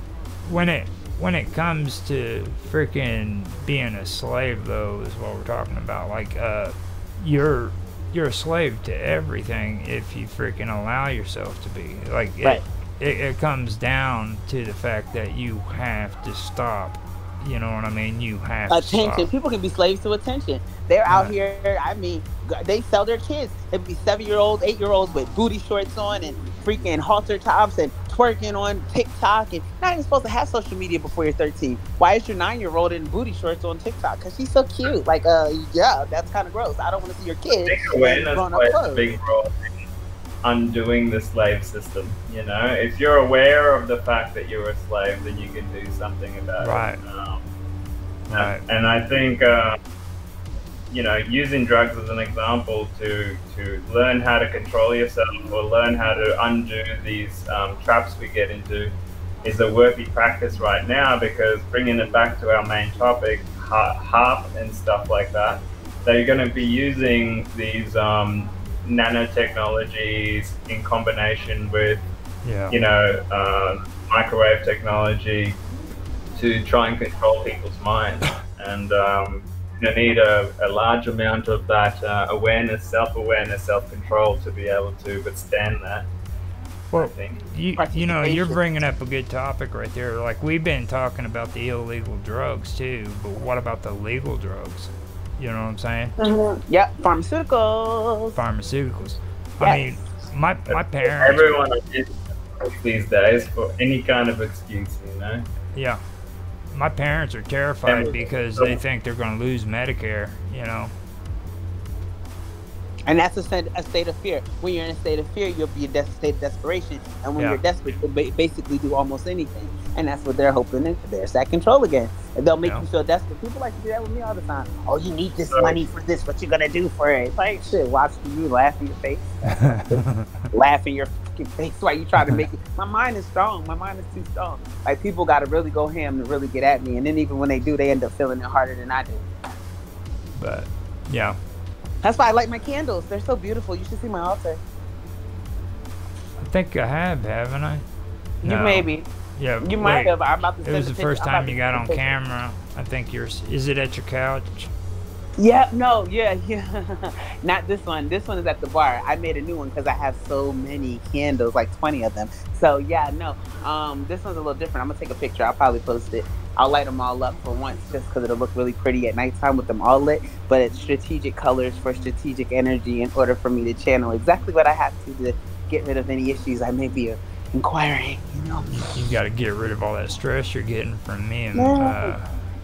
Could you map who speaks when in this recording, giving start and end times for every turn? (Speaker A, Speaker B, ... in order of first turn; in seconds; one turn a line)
Speaker A: 0.4-19.3
Speaker B: 18.7-39.1
Speaker A: 21.1-21.3
Speaker C: 37.6-39.8
Speaker C: 40.4-47.5
Speaker A: 46.6-47.0
Speaker A: 48.3-48.6
Speaker C: 48.3-49.8
Speaker C: 50.9-72.0
Speaker A: 72.4-72.7
Speaker C: 72.7-75.6
Speaker C: 76.3-86.1
Speaker A: 86.9-96.1
Speaker C: 87.0-87.4
Speaker B: 87.8-88.6
Speaker B: 96.2-98.4
Speaker A: 98.3-101.6
Speaker B: 99.6-100.0
Speaker C: 100.7-105.5
Speaker A: 105.7-106.0
Speaker A: 106.7-110.9
Speaker C: 107.8-108.8
Speaker B: 113.1-139.2
Speaker C: 125.5-125.8
Speaker A: 129.5-130.4
Speaker A: 140.4-141.4
Speaker B: 142.0-144.6
Speaker A: 146.4-147.8
Speaker B: 148.4-149.1
Speaker A: 148.4-154.7
Speaker B: 149.6-152.0
Speaker B: 155.4-178.7
Speaker A: 178.7-182.4
Speaker B: 181.5-182.1